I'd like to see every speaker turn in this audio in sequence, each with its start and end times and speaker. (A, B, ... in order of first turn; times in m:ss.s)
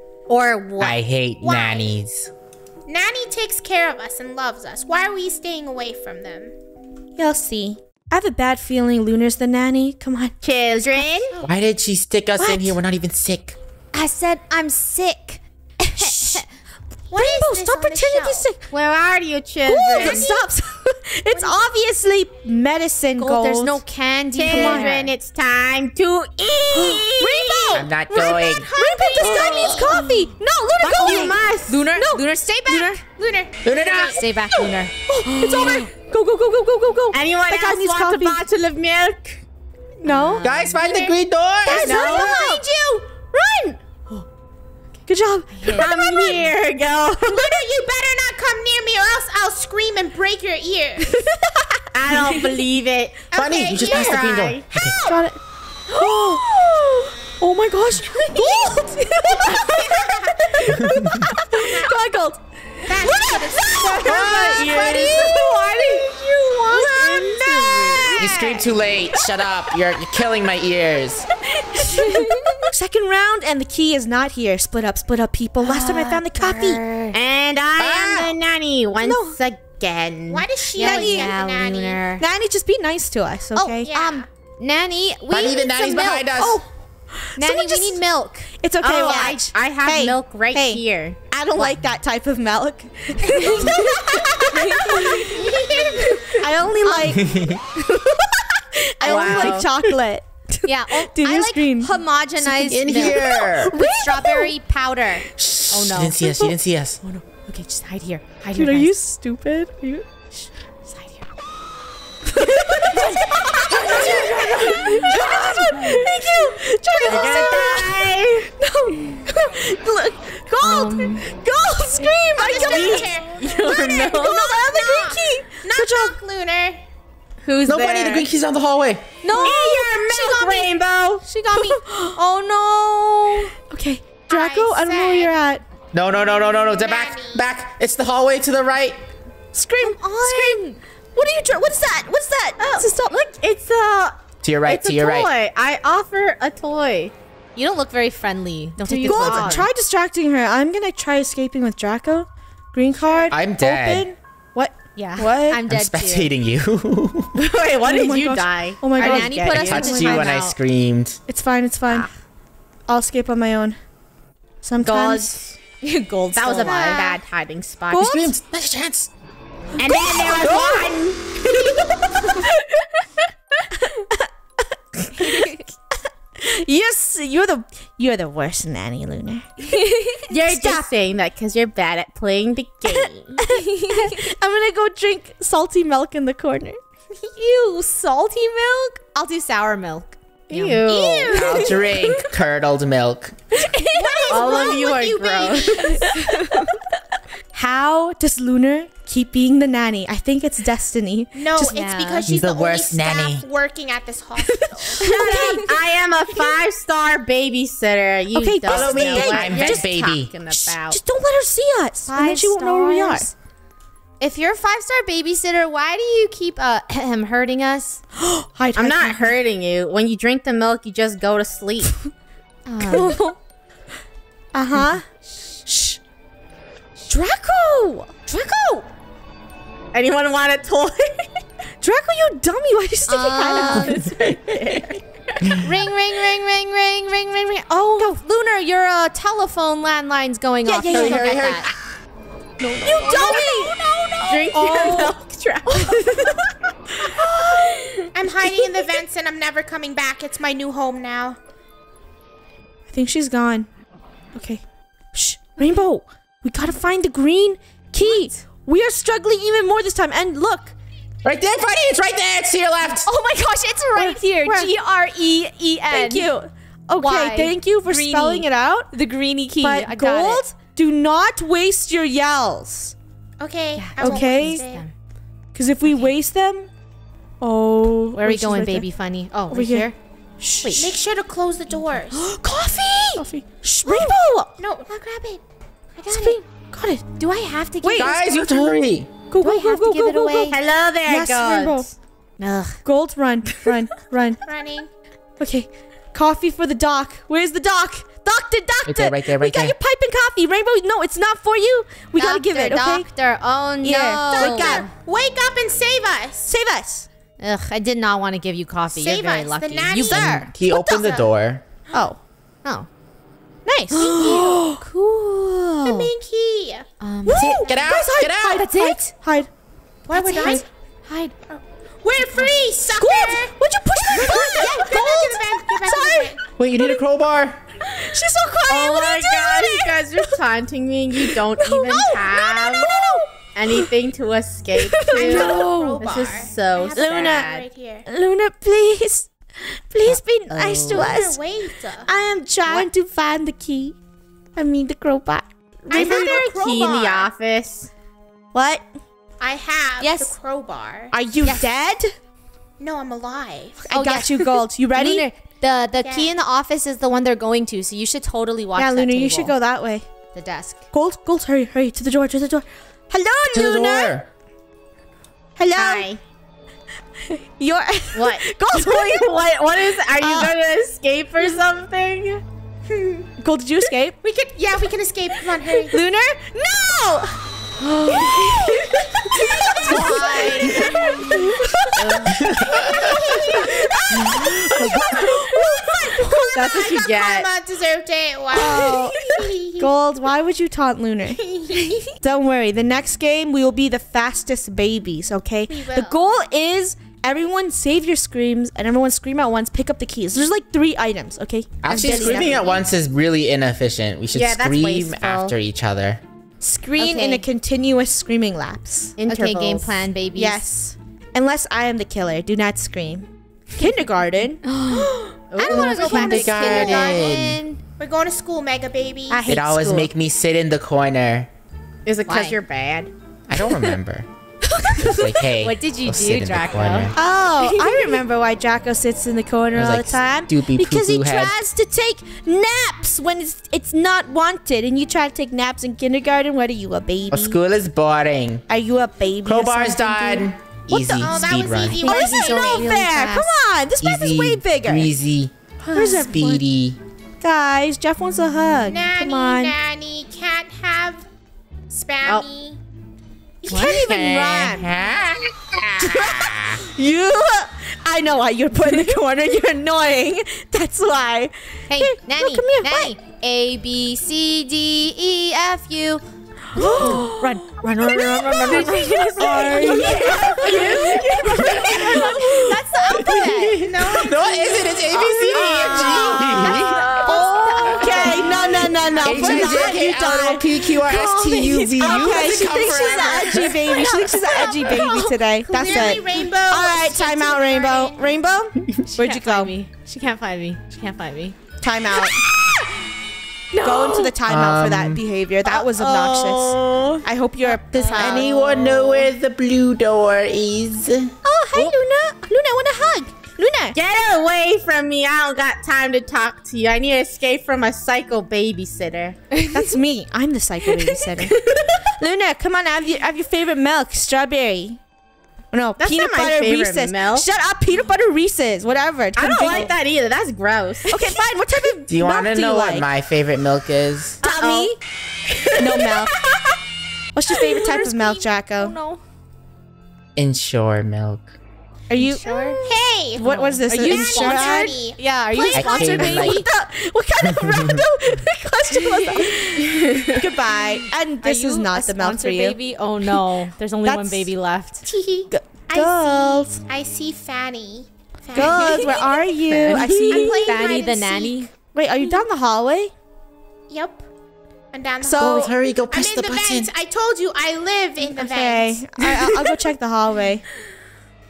0:00.3-0:01.0 A
0:00.8-0:02.3 B
0:01.4-0:01.9 C
0:02.9-0:06.5 C
0:07.2-0:11.3 D
0:10.4-0:11.3 A
0:11.4-0:13.6 B
0:12.4-0:12.8 D
0:13.9-0:16.4 E
0:15.9-0:16.4 D
0:17.1-0:18.4 C
0:17.1-0:18.6 D
0:18.7-0:20.3 A
0:19.6-0:23.8 D
0:19.9-0:20.4 C
0:21.3-0:21.7 C
0:23.2-0:25.1 E
0:24.4-0:27.9 A
0:24.4-0:24.9 D
0:26.7-0:33.0 D
0:27.6-0:30.0 C
0:27.7-0:28.7 B
0:29.2-0:30.1 E
0:30.8-0:31.8 A
0:31.0-0:33.0 E
0:33.2-0:34.2 C
0:33.6-0:34.2 B
0:34.1-0:34.9 E
0:35.1-0:38.4 D
0:35.4-0:35.8 A
0:37.1-0:39.4 A
0:40.0-0:40.6 D
0:40.0-0:40.5 E
0:40.4-0:42.3 B
0:40.5-0:41.1 C
0:41.6-0:43.8 D
0:41.7-0:42.6 A
0:42.1-0:42.4 C
0:45.0-0:46.5 D
0:45.6-0:46.3 E
0:45.7-0:47.6 A
0:47.2-0:51.1 C
0:51.0-0:52.4 D
0:51.9-0:53.3 A
0:53.3-0:54.4 C
0:53.3-0:55.0 B
0:53.9-0:54.7 A
0:55.0-0:55.4 D
0:55.9-1:06.0 D
0:59.3-1:00.5 C
1:00.8-1:01.2 B
1:01.6-1:01.9 C
1:02.8-1:05.3 C
1:04.0-1:05.3 B
1:04.5-1:08.6 A
1:06.6-1:08.4 D
1:06.7-1:08.3 E
1:08.2-1:11.3 B
1:11.7-1:16.8 D
1:11.8-1:12.5 E
1:15.6-1:17.2 E
1:17.1-1:20.5 A
1:17.8-1:18.3 B
1:19.0-1:19.4 D
1:20.3-1:22.0 C
1:20.7-1:22.2 E
1:20.8-1:21.3 D
1:22.2-1:23.9 D
1:23.5-1:26.3 E
1:23.8-1:24.2 C
1:25.3-1:26.6 B
1:26.3-1:26.7 D
1:27.2-1:28.0 D
1:27.4-1:28.5 E
1:28.6-1:35.5 D
1:28.8-1:31.7 A
1:33.4-1:35.1 E
1:35.1-1:36.3 C
1:36.3-1:41.9 D
1:36.8-1:37.2 E
1:39.0-1:39.9 A
1:39.1-1:39.6 E
1:40.6-1:48.9 E
1:42.4-1:44.5 D
1:42.6-1:43.8 B
1:45.4-1:47.0 B
1:48.5-1:50.2 D
1:50.9-1:51.2 E
1:52.3-2:06.2 D
1:52.8-1:55.9 E
1:53.7-1:55.3 A
1:57.0-1:58.5 A
1:57.1-1:57.3 E
2:00.6-2:01.2 E
2:02.3-2:06.8 C
2:02.4-2:04.6 E
2:03.8-2:04.1 A
2:07.4-2:08.2 A
2:07.5-2:07.9 E
2:07.6-2:09.0 B
2:09.2-2:10.6 E
2:09.3-2:11.2 A
2:11.2-2:13.5 E
2:11.5-2:12.2 D
2:13.6-2:15.6 D
2:14.3-2:15.3 C
2:15.9-2:19.0 B
2:16.5-2:17.5 C
2:19.5-2:23.3 D
2:19.8-2:20.6 E
2:22.6-2:27.1 A
2:24.4-2:25.3 B
2:27.5-2:29.7 E
2:28.8-2:35.6 D
2:29.1-2:29.5 B
2:33.0-2:33.3 C
2:33.3-2:34.1 B
2:34.9-2:36.3 E
2:35.6-2:37.3 B
2:37.4-2:40.5 A
2:37.5-2:40.3 D
2:38.9-2:40.5 E
2:39.4-2:41.2 B
2:41.3-2:42.1 D
2:41.9-2:42.1 E
2:42.9-2:43.8 D
2:44.6-2:45.4 D
2:44.8-2:45.6 A
2:45.8-2:47.0 E
2:46.3-2:48.1 A
2:46.6-2:47.2 C
2:47.9-2:48.3 D
2:48.0-2:49.1 B
2:49.8-2:51.7 A
2:50.4-2:50.9 B
2:53.8-2:54.2 D
2:55.1-2:55.6 D
2:56.4-2:59.7 D
2:59.7-3:00.2 E
3:00.3-3:03.4 A
3:00.3-3:00.9 D
3:03.4-3:06.8 D
3:03.5-3:04.2 E
3:07.3-3:12.1 E
3:10.5-3:11.6 A
3:10.5-3:11.9 D
3:11.3-3:13.4 B
3:13.6-3:14.4 D
3:13.9-3:14.5 E
3:13.9-3:16.0 C
3:14.3-3:16.0 A
3:15.8-3:16.7 E
3:16.0-3:16.6 D
3:17.6-3:21.3 D
3:21.3-3:25.0 C
3:21.6-3:22.2 E
3:22.2-3:23.4 B
3:24.5-3:25.8 D
3:25.0-3:31.0 A
3:25.2-3:25.6 E
3:28.3-3:30.0 D
3:28.7-3:30.3 B
3:30.5-3:33.3 D
3:32.1-3:33.3 E
3:34.2-3:38.0 E
3:38.2-3:39.4 D
3:38.8-3:42.0 A
3:42.7-3:43.2 E
3:42.8-3:43.4 D
3:44.5-3:45.0 D
3:45.6-3:46.0 D
3:47.1-3:48.2 D
3:48.3-3:48.8 E
3:49.9-3:51.4 A
3:51.8-3:54.0 D
3:53.1-3:54.2 E
3:53.8-3:54.9 A
3:55.6-4:01.7 E
4:00.6-4:01.2 D
4:00.9-4:01.7 B
4:02.6-4:03.7 D
4:02.8-4:05.0 E
4:03.2-4:03.4 A
4:04.2-4:06.4 A
4:04.5-4:05.2 D
4:05.7-4:06.3 D
4:08.1-4:11.4 C
4:12.9-4:13.7 D
4:14.3-4:20.7 D
4:18.0-4:18.4 E
4:21.2-4:23.1 B
4:22.9-4:26.3 E
4:23.9-4:24.7 D
4:25.9-4:28.9 D
4:27.0-4:30.4 E
4:29.6-4:32.9 D
4:33.4-4:34.8 C
4:33.7-4:34.9 E
4:34.0-4:34.6 D
4:35.5-4:36.7 D
4:35.8-4:36.1 E
4:37.4-4:38.9 D
4:38.1-4:40.0 E
4:39.5-4:39.9 D
4:40.4-4:40.8 D
4:40.6-4:40.9 E
4:40.7-4:42.3 C
4:42.1-4:44.2 D
4:42.8-4:43.2 E
4:43.8-4:45.4 E
4:44.6-4:44.9 C
4:46.0-4:46.4 E
4:46.1-4:47.1 D
4:47.2-4:48.6 E
4:47.8-4:48.7 D
4:48.0-4:49.1 B
4:49.3-4:51.9 D
4:49.4-4:50.6 E
4:50.5-4:51.9 A
4:52.4-4:52.8 E
4:52.8-4:54.4 D
4:54.4-4:54.9 C
4:55.4-5:03.1 D
4:58.8-4:59.8 B
5:02.1-5:04.9 E
5:03.8-5:04.9 D
5:04.3-5:06.5 C
5:06.5-5:07.1 D
5:07.4-5:10.4 E
5:08.9-5:11.2 C
5:10.1-5:11.6 B
5:10.1-5:10.4 D
5:11.9-5:12.2 D
5:13.6-5:14.8 D
5:13.9-5:16.1 E
5:14.0-5:14.6 C
5:15.8-5:18.1 C
5:17.0-5:17.5 E
5:17.2-5:19.5 D
5:17.5-5:18.6 B
5:18.4-5:19.1 E
5:20.1-5:20.6 C
5:20.1-5:21.3 E
5:20.1-5:20.6 D
5:21.5-5:23.6 C
5:22.9-5:27.0 D
5:24.1-5:26.4 C
5:26.6-5:27.6 B
5:27.8-5:30.3 D
5:28.7-5:33.0 A
5:31.2-5:33.9 D
5:33.6-5:37.6 A
5:34.8-5:36.1 D
5:35.0-5:38.1 C
5:35.3-5:35.7 E
5:36.9-5:37.5 D
5:38.0-5:41.4 D
5:40.0-5:41.2 E
5:40.9-5:42.1 C
5:42.0-5:43.9 D
5:44.5-5:46.4 D
5:45.9-5:47.3 C
5:45.9-5:47.9 A
5:48.5-5:48.9 D
5:49.4-5:51.1 C
5:50.0-5:50.4 E
5:51.1-5:52.1 D
5:51.4-5:51.7 E
5:52.8-5:53.8 C
5:53.8-5:55.3 D
5:53.9-5:59.5 E
5:56.0-5:56.3 C
5:58.8-6:00.0 D
6:00.3-6:00.8 E
6:00.9-6:04.2 D
6:03.5-6:04.3 B
6:05.6-6:06.1 D
6:05.7-6:06.2 A
6:07.2-6:09.3 D
6:08.1-6:12.4 A
6:10.1-6:10.5 D
6:12.9-6:13.3 C
6:13.4-6:14.2 D
6:14.2-6:16.0 C
6:15.9-6:22.3 D
6:18.0-6:20.9 E
6:19.5-6:20.8 C
6:19.8-6:21.3 A
6:22.0-6:22.5 A
6:22.3-6:22.8 B
6:22.4-6:24.3 C
6:23.3-6:26.8 D
6:24.3-6:25.1 B
6:25.3-6:29.9 C
6:26.5-6:27.5 A
6:28.5-6:31.4 D
6:28.9-6:29.4 E
6:31.4-6:32.0 C
6:32.2-6:42.9 D
6:35.7-6:36.2 C
6:41.8-6:46.2 B
6:42.0-6:42.3 E
6:44.3-6:45.5 A
6:46.6-6:49.2 D
6:47.0-6:47.4 E
6:49.2-6:50.0 A
6:49.2-6:50.6 E
6:50.3-6:55.0 D
6:54.6-6:57.8 E
6:55.5-6:57.1 A
6:55.6-6:57.6 B
6:56.5-6:57.3 C
6:58.0-6:59.4 C
6:59.3-7:00.1 E
6:59.5-7:01.5 B
7:02.0-7:03.1 A
7:02.2-7:02.6 E
7:03.5-7:04.3 B
7:03.6-7:04.0 E
7:04.6-7:05.4 D
7:04.9-7:07.1 B
7:05.6-7:08.2 E
7:07.1-7:17.6 D
7:09.7-7:11.6 B
7:17.3-7:18.6 B
7:18.7-7:21.4 D
7:19.4-7:22.1 B
7:21.1-7:22.9 C
7:22.0-7:23.6 E
7:22.0-7:25.1 D
7:24.0-7:25.5 B
7:25.9-7:26.3 E
7:25.9-7:26.6 D
7:26.2-7:27.0 B
7:27.4-7:29.8 D
7:28.8-7:31.3 C
7:31.9-7:32.8 C
7:33.6-7:34.0 C
7:33.6-7:34.9 D
7:33.7-7:36.8 B
7:36.0-7:43.2 D
7:41.9-7:46.2 E
7:46.7-7:53.7 D
7:46.7-7:53.8 E
7:48.6-7:48.9 A
7:49.6-7:51.0 C
7:50.8-7:51.5 A
7:51.5-7:52.5 B
7:51.8-7:52.4 C
7:53.1-7:57.0 B
7:53.7-7:58.3 C
7:55.3-7:56.3 A
7:56.1-7:58.5 E
7:57.1-7:58.5 A
7:57.2-8:09.7 D
7:59.0-8:00.0 C
7:59.2-8:04.2 B
8:01.7-8:03.5 E
8:04.0-8:06.2 E
8:05.7-8:08.2 C
8:09.1-8:11.6 E
8:11.8-8:12.4 D
8:13.7-8:14.3 E
8:13.8-8:18.5 D
8:14.4-8:15.2 B
8:15.7-8:17.1 A
8:15.9-8:17.1 E
8:17.6-8:18.4 E
8:18.1-8:21.3 B
8:18.3-8:19.3 A
8:21.4-8:24.0 D
8:23.9-8:29.4 A
8:29.6-8:29.9 E
8:29.7-8:35.0 D
8:35.7-8:39.9 D
8:36.0-8:37.5 A
8:39.3-8:41.1 A
8:39.6-8:39.9 E
8:41.1-8:43.1 D
8:42.1-8:44.4 B
8:44.4-8:44.9 A
8:44.4-8:45.0 D
8:45.8-8:46.4 D
8:45.8-8:46.7 A
8:47.3-8:48.9 D
8:47.8-8:49.2 E
8:50.4-8:51.5 B
8:52.1-8:52.8 D
8:52.1-8:52.9 E
8:52.4-8:55.2 C
8:53.4-8:55.0 D
8:53.4-8:56.6 E
8:55.5-9:02.8 D
8:55.7-8:56.6 B
8:57.6-8:58.0 B
9:01.4-9:05.0 E
9:04.0-9:04.5 D
9:05.0-9:09.3 C
9:05.5-9:06.8 D
9:08.5-9:10.8 D
9:08.6-9:09.3 E
9:08.6-9:10.3 A
9:09.8-9:11.7 E
9:10.1-9:11.7 C
9:11.9-9:13.1 D
9:13.9-9:14.2 C
9:14.9-9:19.8 C
9:15.2-9:15.7 D
9:15.3-9:16.9 B
9:18.2-9:20.6 D